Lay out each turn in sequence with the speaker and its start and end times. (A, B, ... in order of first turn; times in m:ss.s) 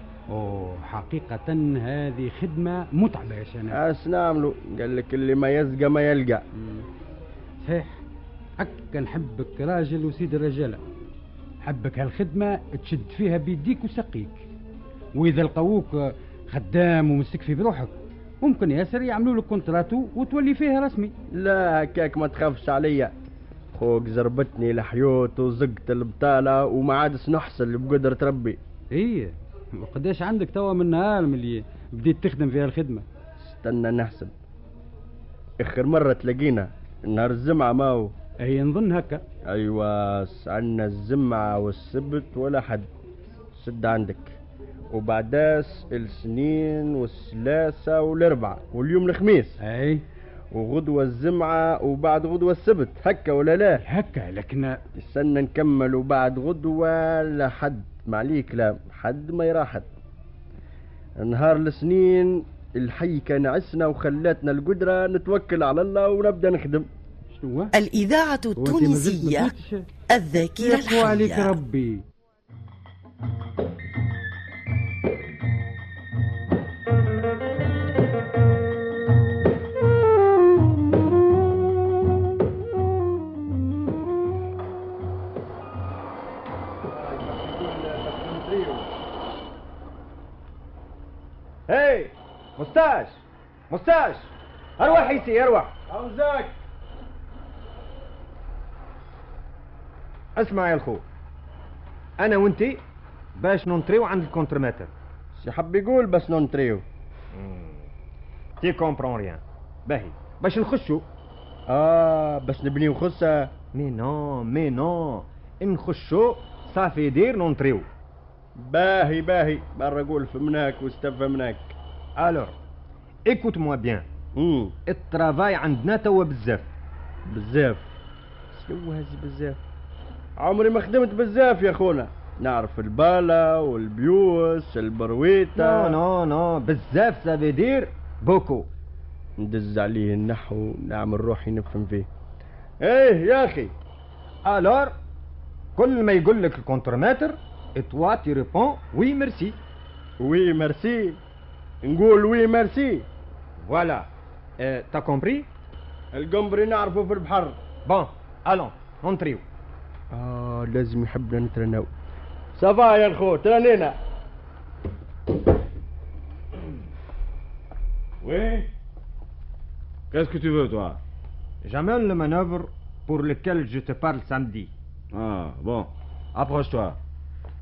0:00.3-0:03.8 A
0:03.7-0:06.4 B
0:06.6-0:06.8 A
0:07.6-0:08.0 A
0:08.6-0:10.8 A
0:11.6-0:14.4 A
0:15.1-0:21.1 A
0:21.3-0:23.1 B
0:23.7-0:28.6 B
0:28.9-0:33.0 A
0:33.4-0:34.3 B
0:35.6-0:38.1 B
0:38.4-0:39.2 A
0:39.4-0:42.9 B
0:43.5-0:44.4 B
0:44.9-0:49.6 B
0:49.6-0:50.0 A
0:50.5-0:53.8 B
0:53.8-0:54.8 A
0:55.0-0:59.9 B
1:01.2-1:06.9 B
1:07.3-1:07.7 A
1:07.7-1:09.5 C
1:08.5-1:09.8 A
1:10.1-1:11.6 C
1:10.5-1:12.0 A
1:26.8-1:28.9 B
1:31.7-1:35.7 D
1:34.8-1:35.2 B
1:35.8-1:36.6 B
1:40.3-1:41.0 D
1:42.2-1:42.8 D
1:43.4-1:44.9 D
1:45.3-1:46.8 B
1:47.3-1:47.9 D
1:48.6-1:51.1 D
1:51.7-1:53.5 B
1:53.7-1:57.9 D
1:58.6-2:01.8 B
2:02.2-2:02.5 D
2:03.3-2:04.0 D
2:04.3-2:04.8 B
2:04.9-2:06.7 D
2:07.3-2:07.8 B
2:08.5-2:09.6 B
2:10.4-2:16.0 B
2:15.5-2:18.7 D
2:19.4-2:22.1 B
2:22.8-2:23.7 B
2:24.4-2:24.9 D
2:25.8-2:29.6 D
2:30.2-2:31.2 B
2:31.8-2:33.0 B
2:33.6-2:34.1 D
2:34.6-2:35.5 D
2:36.1-2:37.6 B
2:37.8-2:39.4 D
2:40.1-2:41.9 B
2:42.5-2:44.0 B
2:48.2-2:48.7 E
2:50.1-2:51.0 E
2:51.6-2:54.7 D
2:55.1-2:57.0 E